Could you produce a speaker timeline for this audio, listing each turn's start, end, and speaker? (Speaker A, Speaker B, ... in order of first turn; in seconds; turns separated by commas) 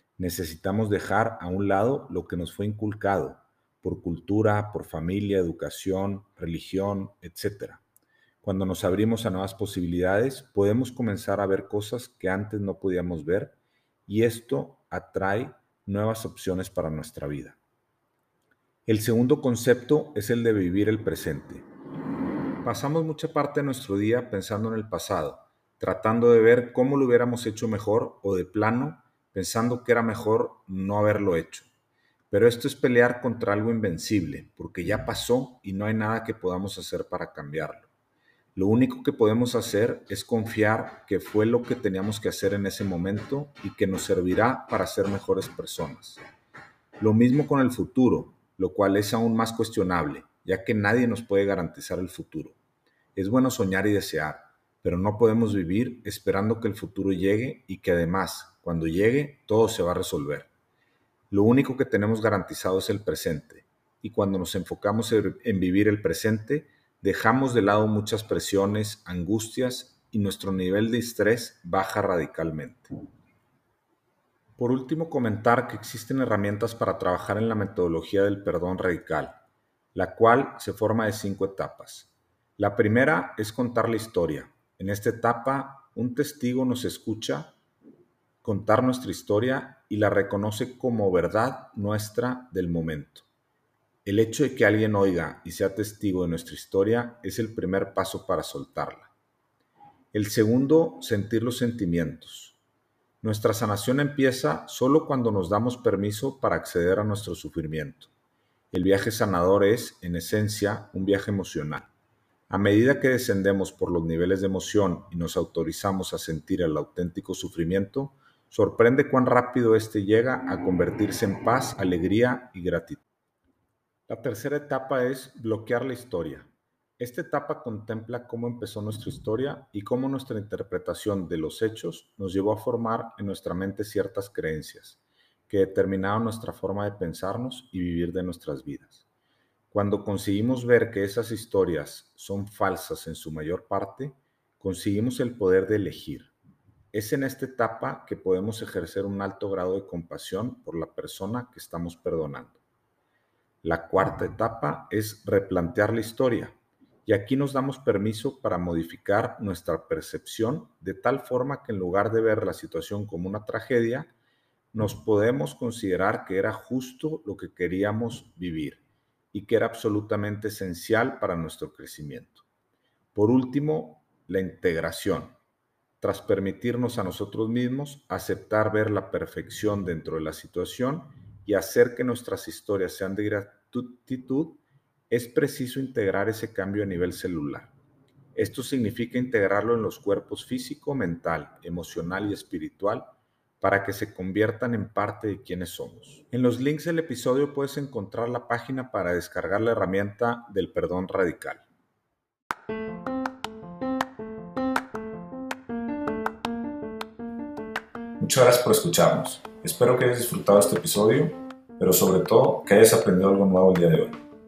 Speaker A: 0.2-7.8, Speaker A: 8.4-17.6, Speaker A: 18.9-21.6, Speaker A: 22.6-31.7, Speaker A: 32.3-37.9, Speaker A: 38.5-46.2, Speaker A: 47.0-52.6, Speaker A: 53.1-60.5, Speaker A: 61.3-72.9, Speaker A: 74.6-79.4, Speaker A: 79.9-87.5, Speaker A: 88.4-93.3, Speaker A: 94.0-99.1, Speaker A: 100.1-102.6, Speaker A: 103.2-108.1, Speaker A: 108.7-111.9, Speaker A: 112.5-123.0, Speaker A: 124.1-139.0, Speaker A: 139.7-146.3, Speaker A: 146.9-152.6, Speaker A: 153.6-164.1, Speaker A: 164.7-172.4, Speaker A: 173.1-175.3, Speaker A: 176.0-187.7, Speaker A: 188.3-193.1, Speaker A: 193.6-201.6, Speaker A: 208.2-214.2